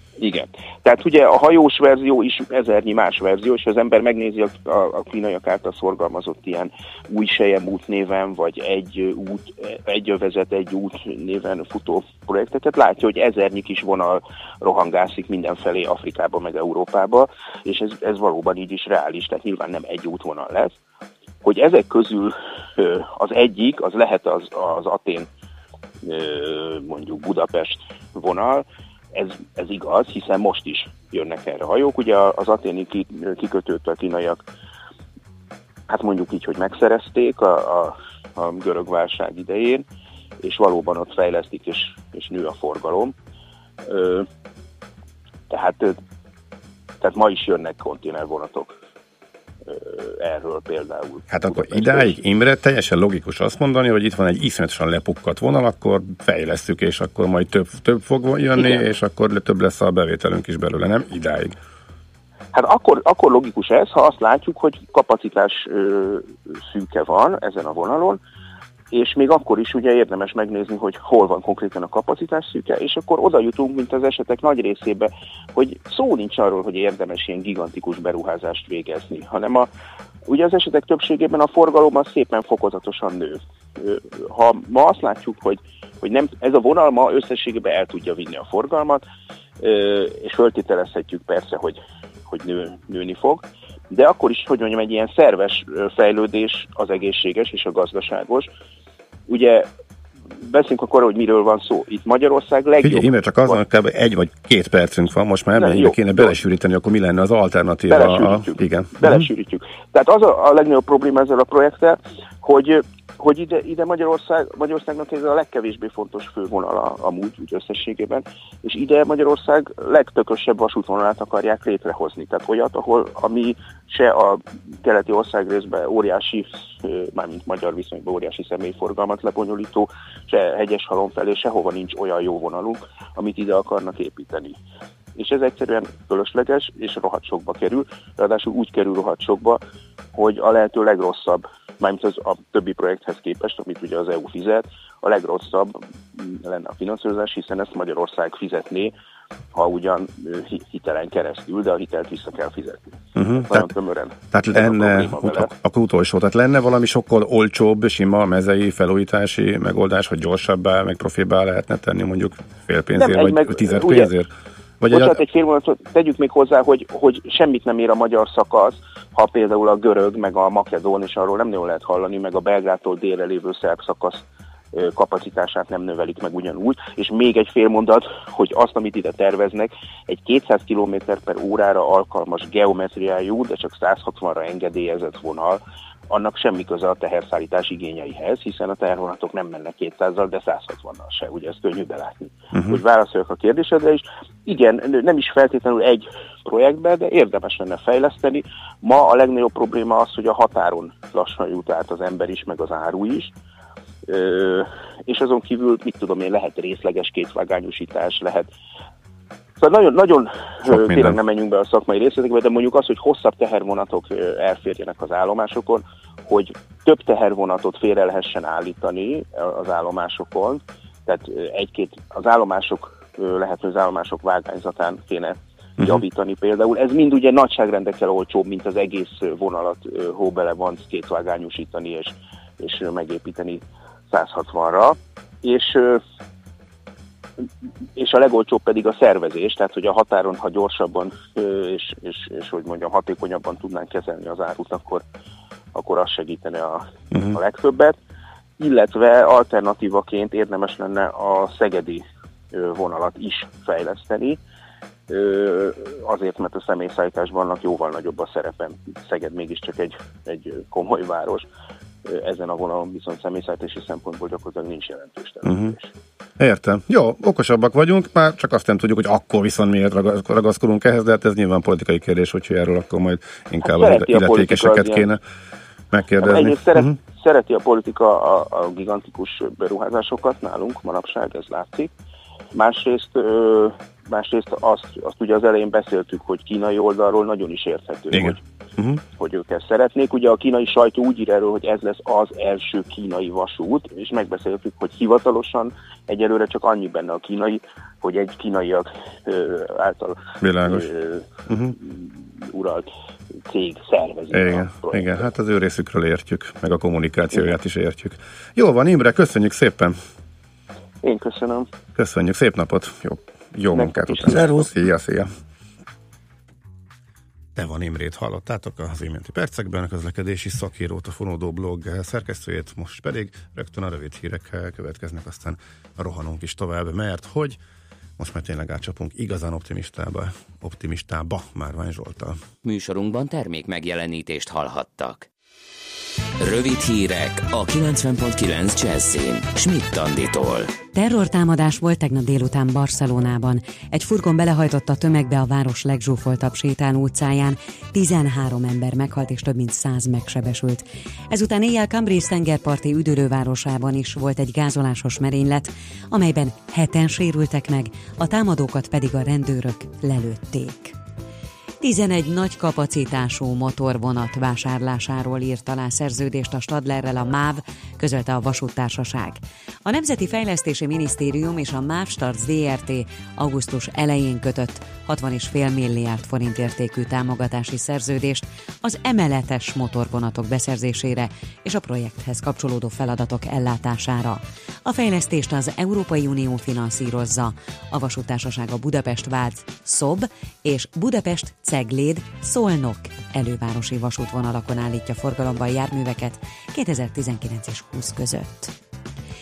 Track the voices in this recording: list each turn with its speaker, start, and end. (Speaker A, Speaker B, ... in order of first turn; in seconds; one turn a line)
Speaker A: 0.2-20.8
Speaker A: 21.4-25.3
Speaker A: 26.0-34.4
Speaker A: 35.9-39.8
Speaker A: 40.4-43.1
Speaker A: 43.8-44.3
Speaker A: 45.5-46.0
Speaker A: 47.0-48.8
Speaker A: 49.6-52.1
Speaker B: 51.3-61.5
Speaker A: 58.5-58.8
Speaker A: 62.5-68.2
Speaker A: 68.9-79.7
Speaker A: 80.2-89.0
Speaker A: 89.6-98.5
Speaker A: 99.3-99.7
Speaker A: 100.4-103.6
Speaker B: 102.8-109.3
Speaker A: 105.5-106.3
Speaker A: 107.9-134.6
Speaker A: 135.2-139.6
Speaker A: 140.1-148.9
Speaker A: 149.5-155.5
Speaker B: 153.2-153.7
Speaker B: 154.3-164.3
Speaker A: 162.9-164.1
Speaker B: 164.8-165.2
Speaker A: 164.9-203.3
Speaker B: 192.5-192.8
Speaker A: 204.1-208.5
Speaker A: 209.6-236.0
Speaker B: 210.7-211.2
Speaker A: 238.0-245.0
Speaker A: 245.7-247.9
Speaker B: 247.1-247.4
Speaker A: 248.6-254.4
Speaker A: 255.1-261.5
Speaker A: 262.0-265.9
Speaker B: 265.4-265.8
Speaker B: 266.4-275.2
Speaker A: 273.6-275.1
Speaker B: 275.9-277.0
Speaker A: 276.2-281.9
Speaker A: 282.5-288.4
Speaker B: 288.1-289.0
Speaker A: 289.2-301.2
Speaker B: 300.4-300.9
Speaker B: 301.5-301.7
Speaker A: 301.8-302.9
Speaker A: 303.5-305.2
Speaker B: 304.3-310.0
Speaker A: 311.0-311.7
Speaker B: 311.9-315.2
Speaker A: 313.7-314.7
Speaker B: 317.5-327.6
Speaker B: 328.2-332.4
Speaker C: 332.6-335.3
Speaker C: 336.4-340.7
Speaker D: 340.9-360.9
Speaker D: 361.8-398.7